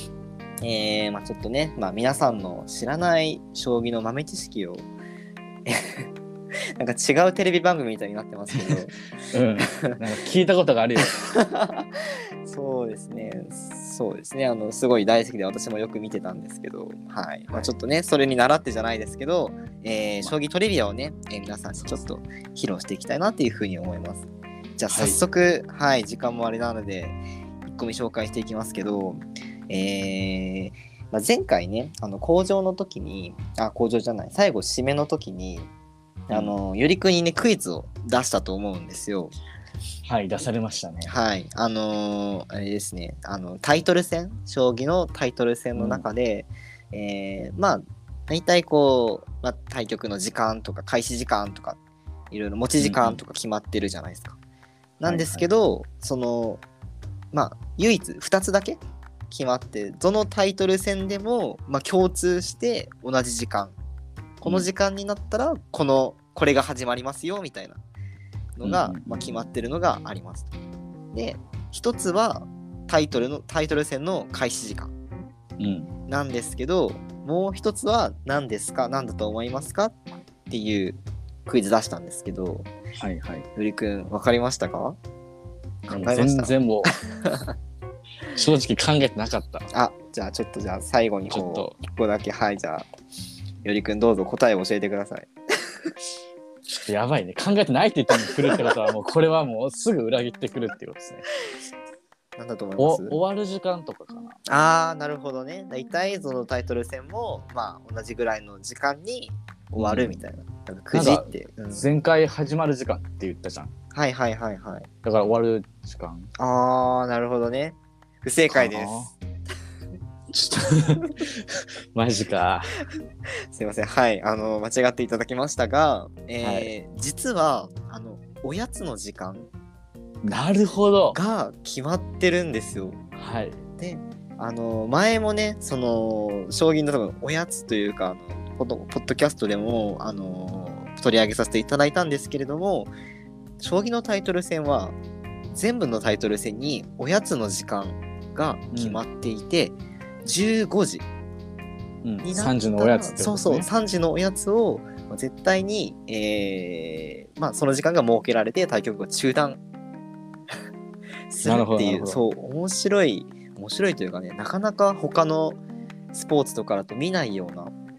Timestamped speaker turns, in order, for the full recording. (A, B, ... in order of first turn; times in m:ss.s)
0:00.6-0:04.9 A
0:05.6-0:06.1 A
0:06.8-0:09.0 A
0:08.5-0:08.8 B
0:09.3-0:11.2 B
0:09.7-0:10.0 A
0:11.0-0:35.7 A
0:24.9-0:25.2 B
0:36.3-0:39.4 A
0:40.0-0:41.2 B
0:41.1-0:51.8 A
0:45.8-0:46.1 B
0:52.3-0:54.4 A
0:52.8-0:53.2 B
0:55.0-0:56.6 A
0:55.0-0:55.5 B
0:57.3-0:58.8 A
0:59.3-1:03.8 A
1:04.4-1:07.8 A
1:08.6-1:10.5 A
1:08.6-1:09.3 B
1:11.1-1:14.9 A
1:15.6-1:15.9 B
1:16.1-1:22.7 A
1:23.0-1:23.5 B
1:23.6-1:25.0 A
1:25.9-1:27.5 A
1:25.9-1:26.9 B
1:28.3-1:29.7 B
1:29.7-1:32.9 A
1:31.3-1:31.8 B
1:33.6-1:35.9 A
1:36.8-1:41.3 B
1:38.3-1:38.7 A
1:42.4-1:43.2 A
1:42.8-1:44.4 B
1:44.5-1:51.8 A
1:49.8-1:50.2 B
1:50.9-1:53.7 B
1:53.9-1:54.9 A
1:55.0-1:56.3 B
1:56.4-1:59.0 A
1:58.5-1:59.1 B
2:00.3-2:02.8 B
2:03.3-2:09.5 A
2:06.4-2:06.7 B
2:10.2-2:11.2 B
2:11.1-2:13.0 A
2:13.2-2:13.6 B
2:13.8-2:22.9 A
2:23.6-2:25.0 A
2:25.5-2:31.1 A
2:28.7-2:29.0 B
2:32.0-2:33.7 B
2:32.2-2:39.6 A
2:41.3-2:45.6 A
2:41.4-2:42.2 B
2:46.1-2:47.7 A